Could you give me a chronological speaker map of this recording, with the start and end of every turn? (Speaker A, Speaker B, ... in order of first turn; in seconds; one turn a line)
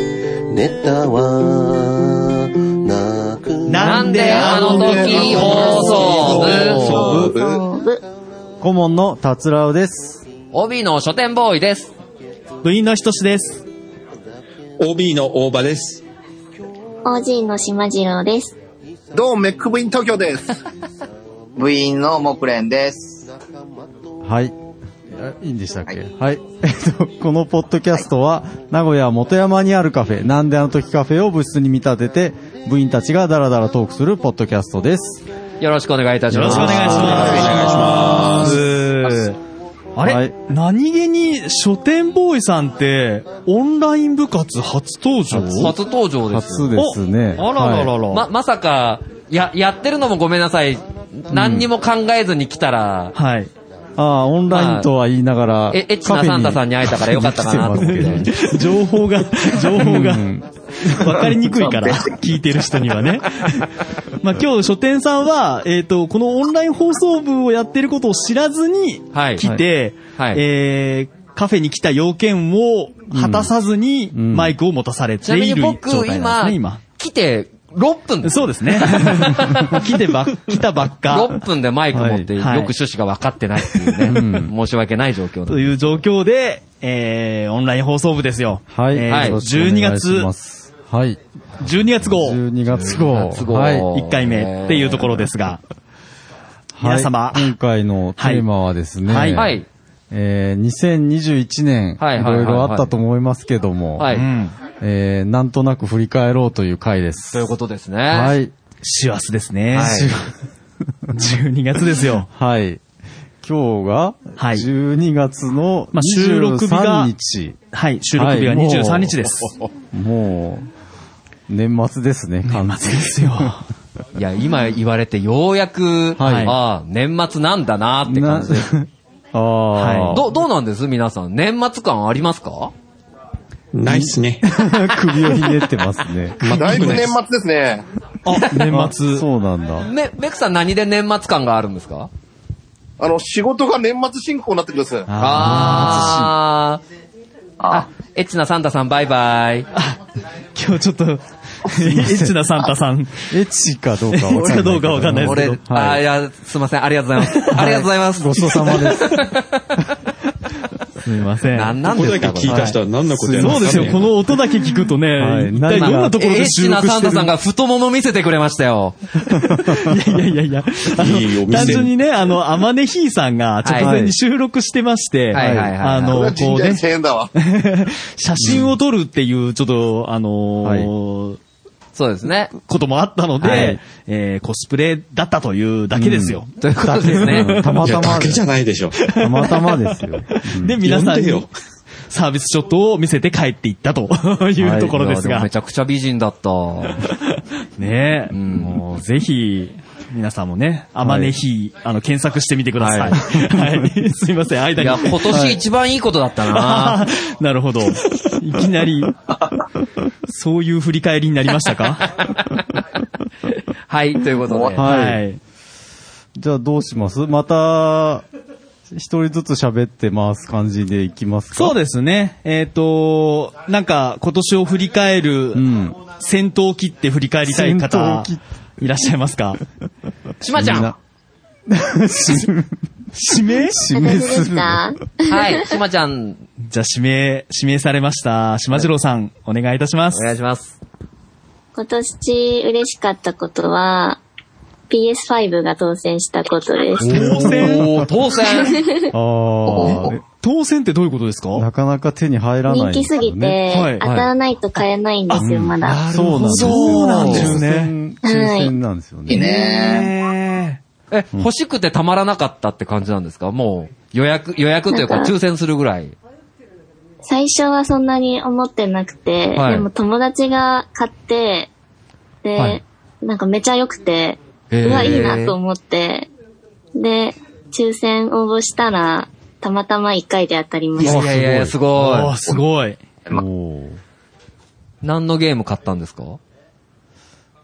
Speaker A: 0.5-2.2
Speaker A: 2.9-3.7
Speaker B: 3.7-6.7
Speaker C: 3.7-7.0
Speaker D: 4.5-4.8
Speaker E: 5.2-8.0
Speaker F: 5.2-7.6
Speaker G: 8.6-10.2
Speaker C: 10.5-11.9
Speaker B: 12.6-13.6
Speaker F: 14.8-16.0
Speaker E: 17.1-18.6
Speaker D: 19.1-20.6
Speaker H: 21.6-23.3
Speaker G: 24.2-24.6
Speaker G: 25.1-35.2
Speaker C: 35.6-37.6
Speaker B: 36.3-39.4
Speaker G: 36.4-36.9
Speaker F: 37.0-38.6
Speaker B: 40.0-45.7
Speaker G: 40.0-40.3
Speaker C: 45.3-46.7
Speaker G: 46.3-47.9
Speaker B: 46.8-48.2
Speaker C: 48.1-53.1
Speaker G: 51.3-51.7
Speaker B: 53.1-53.5
Speaker G: 54.0-58.7
Speaker C: 54.5-54.9
Speaker C: 55.7-58.3
Speaker B: 57.9-76.8
Speaker G: 59.4-61.2
Speaker H: 61.3-62.2
Speaker C: 69.1-69.5
Speaker C: 70.2-70.4
Speaker G: 73.1-73.5
Speaker G: 74.1-74.5
Speaker C: 75.2-79.8
Speaker B: 78.2-81.3
Speaker C: 81.1-85.7
Speaker G: 81.9-82.3
Speaker B: 82.4-82.7
Speaker G: 84.0-84.5
Speaker B: 85.5-90.3
Speaker G: 88.7-91.2
Speaker C: 89.1-89.4
Speaker B: 91.6-92.4
Speaker G: 91.8-93.9
Speaker C: 92.8-95.3
Speaker B: 93.9-95.6
Speaker G: 96.8-99.6
Speaker B: 96.8-97.5
Speaker B: 98.2-98.4
Speaker B: 99.1-99.5
Speaker C: 99.3-99.7
Speaker G: 100.1-104.1
Speaker C: 102.0-102.9
Speaker C: 104.0-104.3
Speaker B: 104.1-104.5
Speaker G: 104.8-107.5
Speaker C: 107.3-108.4
Speaker G: 108.1-108.5
Speaker B: 108.8-110.1
Speaker C: 109.7-110.1
Speaker G: 109.8-110.2
Speaker B: 111.1-112.3
Speaker G: 112.3-112.8
Speaker G: 113.4-117.6
Speaker B: 114.4-114.7
Speaker B: 115.9-117.1
Speaker B: 117.7-119.5
Speaker G: 118.2-120.7
Speaker G: 121.5-123.5
Speaker B: 122.5-123.6
Speaker C: 124.2-128.7
Speaker G: 126.2-126.6
Speaker B: 126.2-126.5
Speaker G: 128.1-130.3
Speaker B: 129.8-130.2
Speaker C: 130.1-132.7
Speaker F: 133.7-134.4
Speaker G: 133.9-136.5
Speaker F: 136.4-137.2
Speaker D: 136.5-137.8
Speaker B: 138.2-139.2
Speaker G: 138.4-139.9
Speaker C: 139.8-142.1
Speaker D: 143.0-145.1
Speaker B: 145.1-146.3
Speaker C: 145.2-146.8
Speaker G: 145.6-146.2
Speaker H: 147.6-147.9
Speaker C: 147.7-149.7
Speaker B: 150.6-153.3
Speaker G: 151.7-152.7
Speaker G: 153.3-156.0
Speaker B: 154.1-155.6
Speaker C: 155.2-159.7
Speaker B: 157.3-157.6
Speaker G: 157.5-159.3
Speaker B: 161.0-161.8
Speaker C: 161.6-162.7
Speaker F: 161.9-164.1
Speaker B: 162.4-162.8
Speaker G: 163.1-164.0
Speaker B: 163.4-167.3
Speaker G: 165.2-166.2
Speaker C: 165.7-169.0
Speaker B: 169.3-176.8
Speaker G: 169.5-169.9
Speaker F: 170.9-171.9
Speaker C: 173.6-173.9
Speaker G: 173.8-174.2
Speaker C: 175.3-176.2
Speaker G: 175.3-175.8
Speaker D: 176.1-177.3
Speaker B: 177.4-181.4
Speaker G: 178.4-178.8
Speaker G: 180.6-180.9
Speaker C: 181.9-182.5
Speaker B: 182.6-186.5
Speaker C: 183.4-183.8
Speaker G: 183.4-183.8
Speaker G: 185.9-188.4
Speaker C: 186.6-187.6
Speaker B: 187.1-187.8
Speaker F: 187.8-188.9
Speaker B: 189.0-191.5
Speaker G: 189.2-190.8
Speaker F: 190.8-191.5
Speaker B: 192.1-195.5
Speaker G: 194.6-195.2
Speaker C: 195.1-197.0
Speaker B: 197.0-205.5
Speaker C: 198.3-198.8
Speaker G: 201.0-201.4
Speaker C: 202.8-203.2
Speaker G: 203.3-203.8
Speaker C: 204.8-207.0
Speaker G: 205.3-205.6
Speaker B: 206.5-209.1
Speaker B: 210.3-212.4
Speaker C: 213.9-214.8
Speaker H: 214.4-214.8
Speaker G: 214.8-215.2
Speaker B: 214.8-215.4
Speaker G: 216.4-218.2
Speaker G: 218.9-221.8
Speaker B: 221.5-229.6
Speaker G: 225.6-226.0
Speaker G: 227.5-228.4
Speaker C: 230.4-230.9
Speaker G: 230.6-231.0
Speaker G: 231.7-232.7
Speaker B: 233.1-233.8
Speaker G: 233.5-234.9
Speaker E: 233.9-235.7
Speaker C: 235.3-236.4
Speaker B: 236.7-240.3
Speaker C: 240.1-240.8
Speaker E: 241.8-244.2
Speaker E: 244.9-247.3
Speaker G: 247.0-248.0
Speaker B: 247.1-248.1
Speaker C: 247.4-248.8
Speaker E: 248.5-249.1
Speaker G: 249.1-250.2
Speaker H: 249.7-250.1
Speaker B: 250.3-251.7
Speaker G: 251.6-253.6
Speaker E: 252.7-256.0
Speaker B: 253.7-254.1
Speaker C: 254.0-254.3
Speaker B: 255.3-257.9
Speaker G: 255.4-259.4
Speaker C: 256.3-256.9
Speaker H: 257.1-257.5
Speaker E: 258.2-258.7
Speaker H: 259.3-260.1
Speaker E: 259.4-259.9
Speaker B: 259.4-260.8
Speaker C: 261.1-266.2
Speaker E: 264.9-265.3
Speaker E: 267.2-271.7
Speaker C: 269.5-269.9
Speaker E: 272.4-276.3
Speaker C: 274.7-275.6
Speaker E: 277.0-281.2
Speaker G: 281.0-281.8
Speaker C: 281.0-282.3
Speaker B: 281.9-283.0
Speaker G: 283.3-284.0
Speaker C: 285.0-286.4